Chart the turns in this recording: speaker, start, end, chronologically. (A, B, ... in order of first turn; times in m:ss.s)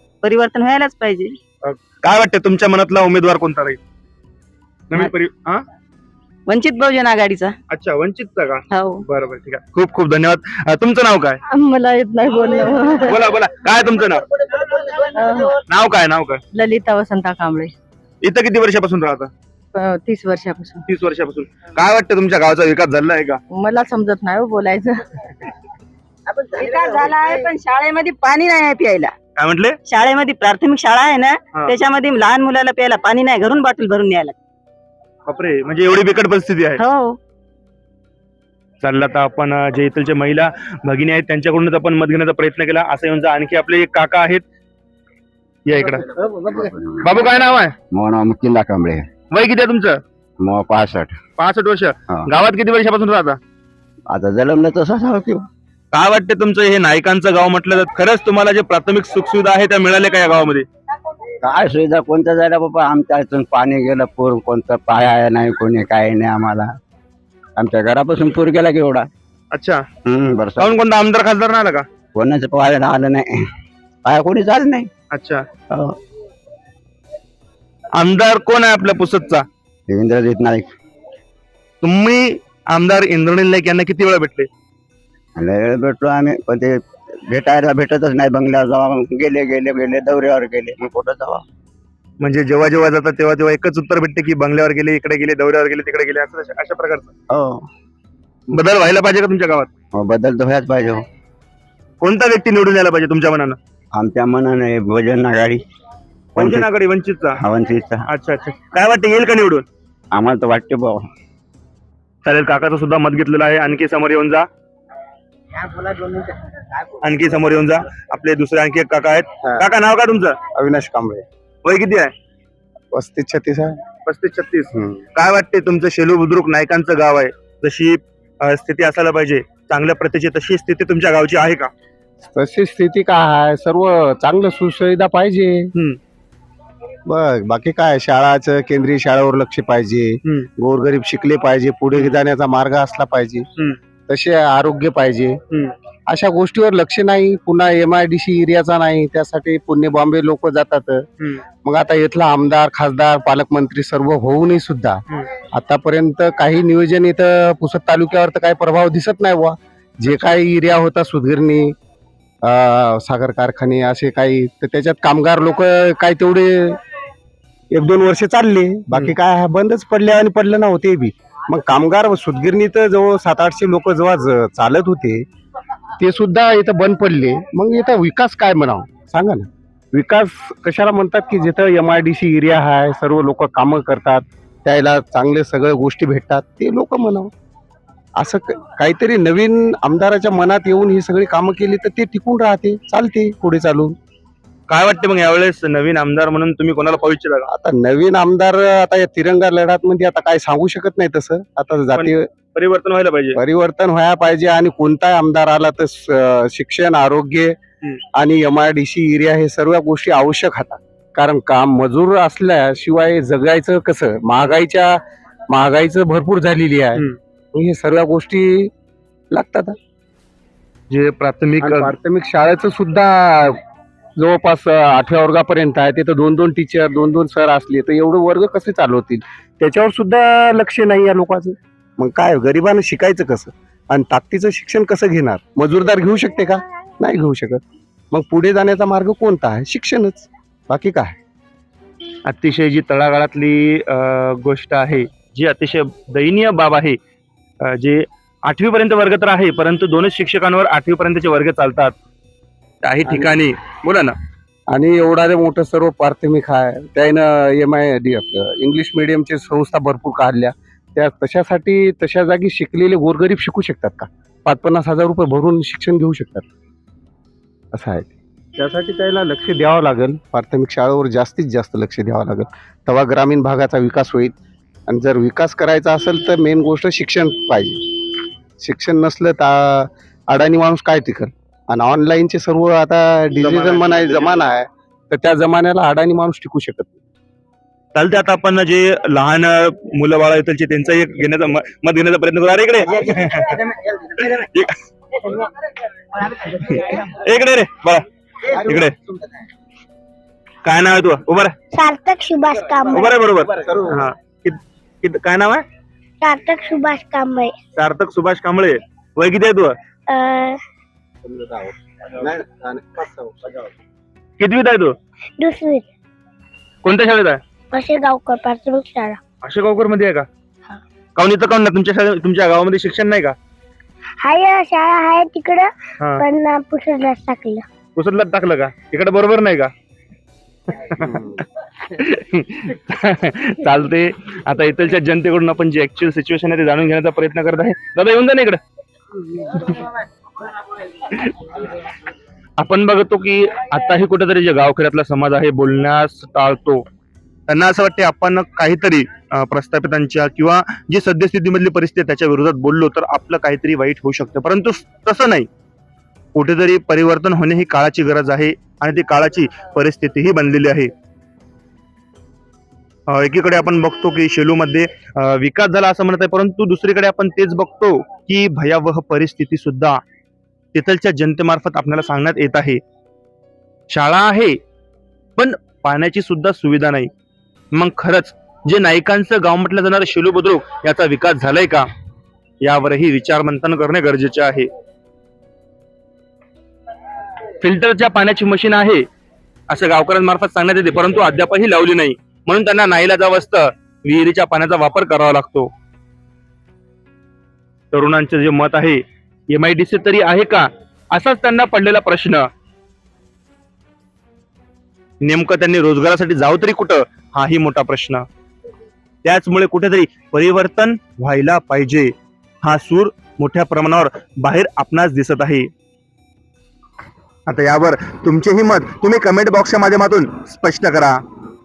0:00.2-0:01.4 A
0:01.6-0:03.8 B
0:04.9-0:05.6 B
0:06.5-0:07.5 A
0:07.7-0:11.4 B
0:08.7-0:09.0 A
0:11.5-0:13.2 A
0:13.1-0:14.2 B
0:15.1-0:15.5 A
0:15.7-0:16.4 B
0:16.6-0:17.7 A
0:18.2-0:19.3 B
0:19.8-0:20.8 A
0:20.9-0:23.4 B
0:23.5-0:25.0 A
0:26.5-0:29.1 A
0:29.4-0:29.8 B
0:29.9-0:34.4 A
0:35.3-0:36.8 B
0:36.8-0:37.2 A
0:38.8-0:44.4 B
0:45.7-0:46.0 B
0:46.2-0:47.2 C
0:47.0-0:47.7 B
0:47.9-0:49.1 C
0:49.3-0:50.0 B
0:50.4-0:51.2 C
0:51.4-0:53.4 B
0:54.1-0:55.4 C
0:55.9-1:00.7 B
1:01.4-1:06.7 C
1:07.6-1:09.1 C
1:09.5-1:09.8 B
1:10.1-1:10.8 C
1:10.6-1:11.9 B
1:12.2-1:13.4 C
1:14.0-1:14.9 C
1:15.1-1:15.4 B
1:18.0-1:19.4 B
1:19.9-1:20.7 C
1:21.8-1:24.5 B
1:25.4-1:31.4 C
1:32.2-1:37.1 B
1:37.3-1:37.6 C
1:38.5-1:39.7 B
1:40.0-1:41.0 C
1:42.0-1:43.6 B
1:44.0-1:45.6 C
1:46.4-1:46.7 C
1:46.4-1:47.4 B
1:47.4-1:48.1 C
1:48.1-1:49.6 B
1:50.1-1:51.1 C
1:52.2-1:54.5 B
1:57.0-2:00.4 B
2:00.5-2:01.2 D
2:01.6-2:02.1 B
2:02.9-2:03.8 D
2:04.1-2:11.7 B
2:04.7-2:05.0 D
2:12.3-2:15.7 D
2:17.1-2:23.5 D
2:24.1-2:25.4 D
2:26.1-2:31.1 D
2:31.6-2:35.0 D
2:35.6-2:41.7 D
2:42.4-2:46.8 D
2:47.7-2:55.2 D
2:56.0-3:07.3 D
3:08.2-3:14.0 D
3:14.7-3:17.5 B
3:17.5-3:22.2 D
3:22.0-3:23.4 B
3:23.4-3:27.6 D
3:28.2-3:35.0 D
3:35.5-3:38.7 D
3:39.3-3:39.8 D
3:40.9-3:42.0 B
3:41.6-3:43.6 D
3:44.2-3:57.6 D
3:58.1-4:01.2 D
4:02.3-4:07.0 B
4:07.7-4:11.9 B
4:12.8-4:14.1 B
4:14.7-4:26.5 D
4:27.7-4:34.3 D
4:34.9-4:38.0 D
4:38.6-4:47.0 D
4:43.4-4:44.3 B
4:48.0-4:53.6 B
4:54.2-4:54.8 B
4:56.4-4:58.0 B
4:58.6-4:59.0 B
5:00.6-5:01.6 B
5:01.7-5:03.1 E
5:02.9-5:05.6 B
5:06.2-5:07.6 E
5:07.8-5:09.8 B
5:10.1-5:10.6 E
5:11.2-5:13.7 D
5:14.4-5:15.0 B
5:15.4-5:15.8 E
5:16.8-5:17.4 B
5:17.7-5:19.2 E
5:19.4-5:20.3 B
5:21.2-5:23.4 B
5:24.2-5:27.7 E
5:28.0-5:29.7 B
5:30.9-5:31.3 B
5:31.0-5:31.4 D
5:32.0-5:38.6 B
5:39.5-5:39.8 B
5:42.6-5:46.8 B
5:47.5-5:55.5 B
5:56.4-6:00.9 B
6:03.1-6:10.0 B
6:10.7-6:12.8 B
6:13.9-6:14.6 B
6:15.4-6:17.1 B
6:17.7-6:21.9 B
6:22.6-6:24.7 B
6:27.6-6:29.0 B
6:29.7-6:35.7 B
6:37.9-6:42.4 B
6:45.2-6:48.2 B
6:49.2-6:52.1 B
6:52.6-6:55.7 B
6:57.5-7:01.2 B